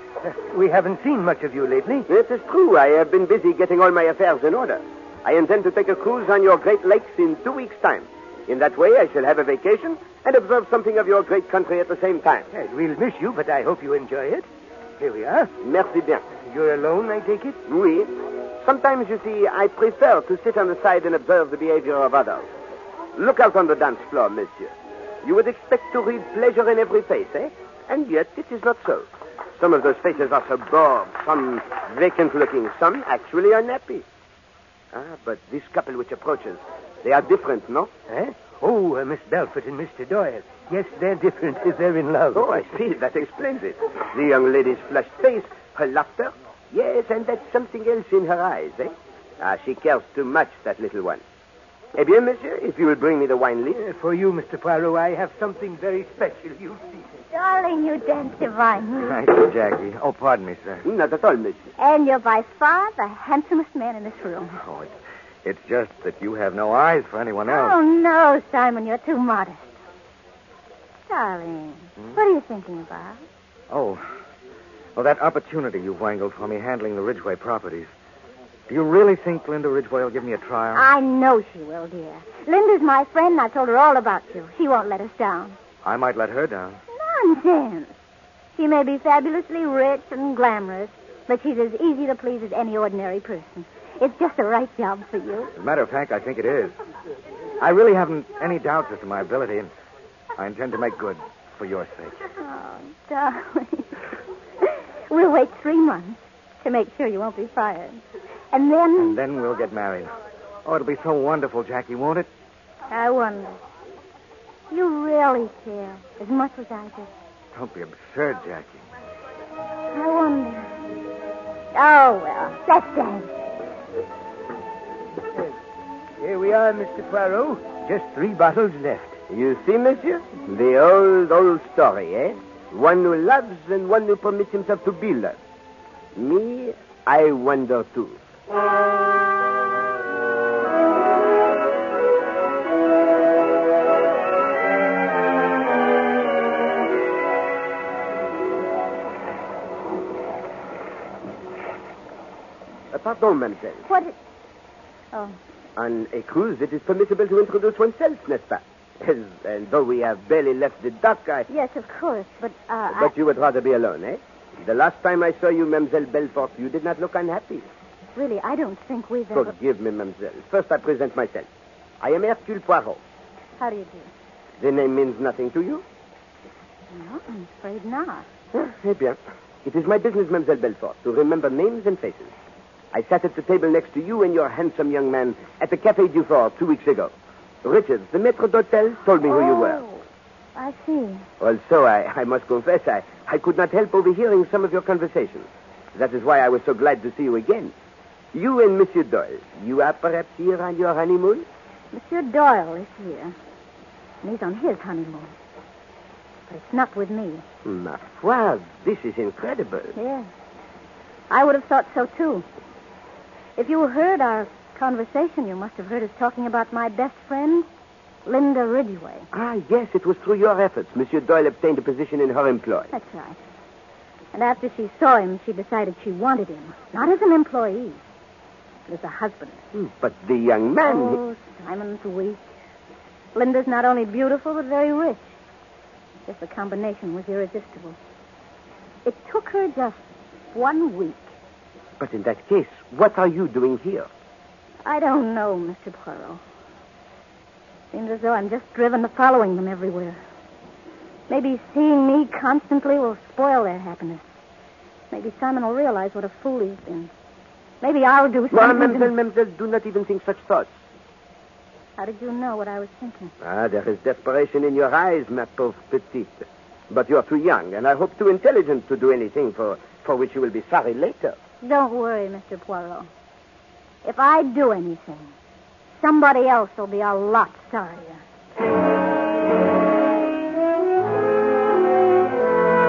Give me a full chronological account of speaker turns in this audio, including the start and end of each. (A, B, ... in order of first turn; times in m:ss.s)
0:00.2-0:02.1 A
0:02.1-0:12.5 B
0:12.5-0:14.5 A
0:15.0-0:15.5 A
0:15.6-0:16.3 B
0:16.4-0:17.6 A
0:17.6-0:22.5 B
0:23.2-0:34.0 B
0:34.9-0:37.9 B
0:38.1-0:42.8 A
0:42.3-0:51.2 B
0:52.0-0:53.8 B
0:53.8-0:57.0 A
0:57.3-0:59.2 C
0:59.0-1:00.8 D
1:00.8-1:01.7 B
1:01.8-1:04.6 C
1:04.6-1:04.9 D
1:05.4-1:07.8 D
1:07.5-1:09.7 C
1:11.1-1:13.2 C
1:13.7-1:14.0 D
1:15.0-1:17.9 D
1:18.7-1:20.9 D
1:20.7-1:25.6 C
1:25.8-1:26.8 D
1:26.9-1:27.9 C
1:28.6-1:35.5 C
1:35.6-1:36.7 D
1:37.6-1:39.7 D
1:40.4-1:42.2 D
1:42.4-1:44.0 C
1:44.6-1:49.2 C
1:49.0-1:50.1 D
1:50.6-1:52.3 D
1:52.9-1:53.6 C
1:54.7-1:57.1 C
1:57.5-1:58.8 D
1:59.9-2:00.7 C
2:01.7-2:03.3 C
2:06.2-2:09.2 A
2:09.3-2:15.4 B
2:16.2-2:18.2 B
2:32.9-2:33.9 B
2:33.9-2:34.2 C
2:35.1-2:35.4 C
2:35.8-2:41.5 B
2:41.5-2:43.1 C
2:42.9-2:47.7 B
2:48.2-2:49.6 C
2:49.3-2:51.5 B
2:52.0-2:53.0 B
2:53.6-2:54.1 C
2:54.6-2:55.8 B
2:56.9-2:58.3 C
2:58.5-3:02.3 B
3:02.9-3:09.8 B
3:09.3-3:10.0 C
3:10.6-3:11.3 C
3:11.4-3:17.7 B
3:18.3-3:21.5 B
3:21.9-3:23.4 C
3:24.2-3:25.3 C
3:26.5-3:27.4 C
3:27.6-3:30.0 B
3:30.0-3:30.3 C
3:31.3-3:32.5 C
3:33.6-3:37.7 C
3:38.2-3:39.3 C
3:39.3-3:42.9 B
3:42.9-3:43.4 C
3:44.3-3:48.0 C
3:48.9-3:49.6 C
3:49.7-3:51.2 B
3:50.8-3:52.5 C
3:53.3-3:55.4 C
3:56.3-3:58.0 C
3:59.0-4:01.4 C
4:02.0-4:04.1 B
4:04.8-4:06.4 C
4:07.9-4:10.2 C
4:11.3-4:14.3 C
4:15.1-4:17.1 C
4:17.8-4:19.1 C
4:18.5-4:20.7 B
4:22.0-4:23.3 C
4:23.4-4:31.4 B
4:31.6-4:33.1 C
4:34.0-4:35.3 C
4:36.0-4:38.2 C